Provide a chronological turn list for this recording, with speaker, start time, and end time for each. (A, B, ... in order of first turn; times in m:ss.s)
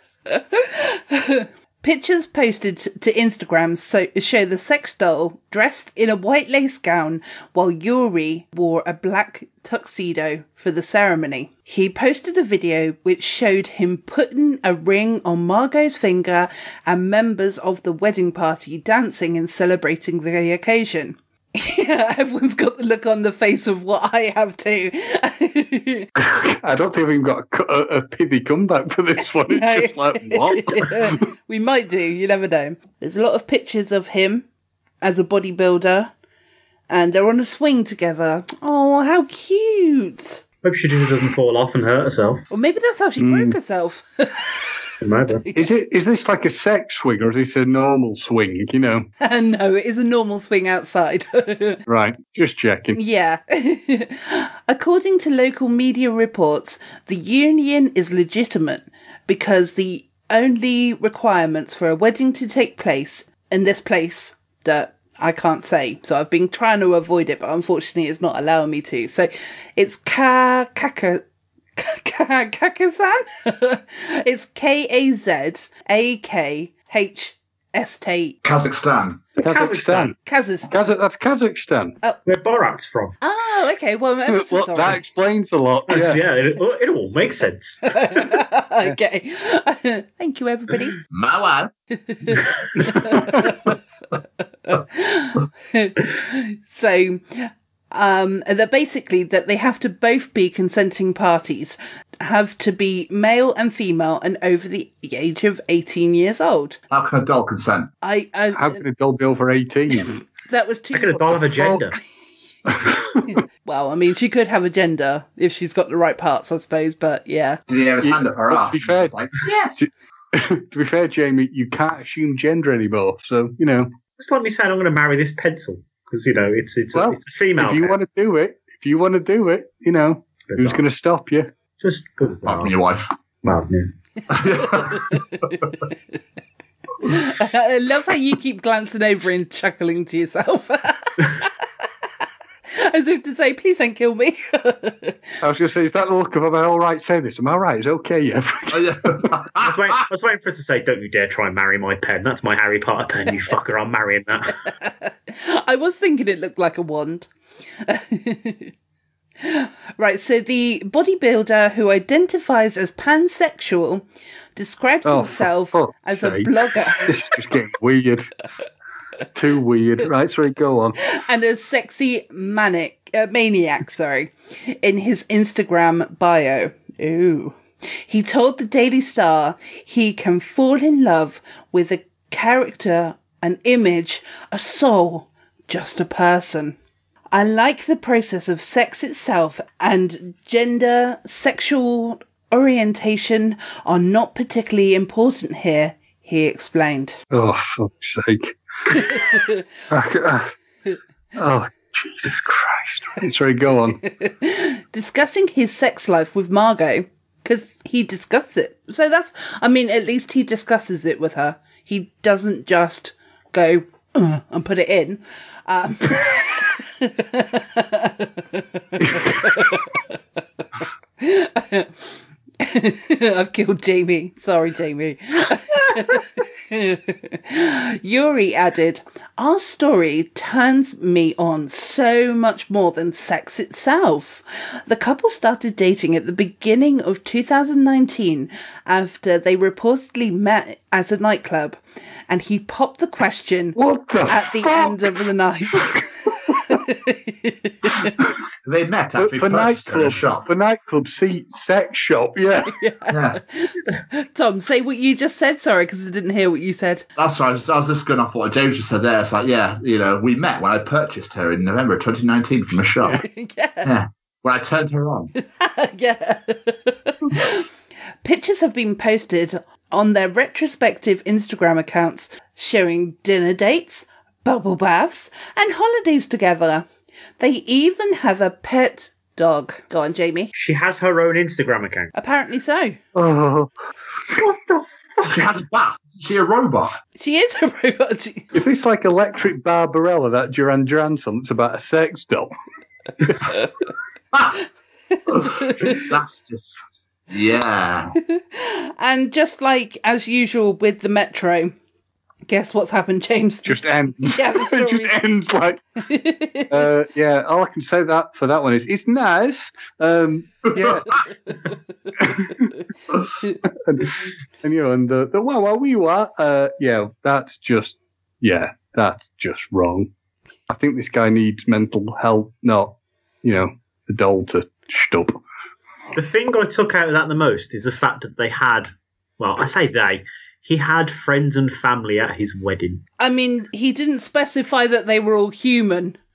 0:00.3-0:26.1 A
0:26.2-0:31.2 B
0:29.2-0:34.5 A
0:35.0-0:36.1 A
0:36.9-0:40.4 A
0:40.6-0:42.4 C
0:42.5-0:44.6 A
0:43.2-0:43.6 B
0:45.0-0:45.4 C
0:45.5-0:49.1 B
0:49.2-0:51.8 A
0:51.9-0:53.0 B
0:53.0-1:11.2 A
1:11.8-1:18.4 A
1:18.4-1:19.2 D
1:19.4-1:20.1 C
1:19.4-1:22.0 B
1:20.3-1:20.7 A
1:22.3-1:23.2 C
1:23.2-1:25.0 A
1:24.3-1:26.2 B
1:25.9-1:27.8 C
1:27.9-1:31.0 A
1:31.1-1:31.7 D
1:32.1-1:33.7 A
1:33.0-1:33.6 B
1:34.7-1:46.8 A
1:46.9-1:47.9 D
1:48.0-1:48.8 A
1:48.6-1:50.2 B
1:50.5-1:51.2 A
1:50.9-1:52.0 C
1:51.4-1:51.8 B
1:52.7-1:53.4 B
1:53.6-1:57.6 A
1:57.7-1:59.8 D
1:58.0-1:59.2 B
1:59.8-2:03.9 B
2:04.2-2:08.0 C
2:06.9-2:11.5 B
2:10.5-2:10.8 C
2:11.8-2:12.7 C
2:12.4-2:13.1 D
2:13.4-2:13.9 C
2:14.3-2:15.0 D
2:17.0-2:21.5 A
2:22.7-2:25.2 A
2:25.4-2:29.3 B
2:28.7-2:30.0 D
2:29.6-2:34.6 C
2:34.7-2:37.3 A
2:37.8-2:38.7 A
2:39.4-2:44.0 A
2:44.6-2:47.2 A
2:45.0-2:48.3 B
2:49.4-2:51.0 B
2:51.1-3:06.8 A
3:07.3-3:17.2 A
3:17.3-3:19.4 B
3:18.9-3:19.6 A
3:19.9-3:20.5 B
3:21.4-3:24.0 B
3:24.0-3:40.0 A
3:39.1-3:39.4 B
3:41.2-3:42.1 A
3:42.6-4:08.1 A
4:03.8-4:05.2 B
4:05.8-4:06.6 B
4:08.6-4:10.4 D
4:09.2-4:12.8 B
4:12.8-4:17.0 A
4:13.1-4:13.4 D
4:17.2-4:23.2 D
4:23.2-4:23.9 A
4:23.8-4:25.3 D
4:25.4-4:27.6 A
4:28.2-4:36.9 A
4:37.4-4:40.5 A
4:40.6-4:42.1 C
4:42.2-4:43.0 A
4:43.2-4:43.7 B
4:44.3-4:45.4 C
4:45.2-4:47.0 D
4:47.2-4:48.5 A
4:48.5-4:52.5 B
4:55.3-4:58.2 D
4:55.4-4:55.9 A
4:58.2-5:01.8 A
5:02.5-5:05.2 A
5:03.6-5:05.8 B
5:06.0-5:06.9 A
5:06.7-5:11.1 B
5:12.2-5:12.7 B
5:13.7-5:20.1 B
5:20.7-5:25.4 B
5:26.2-5:33.0 C
5:33.2-5:36.2 A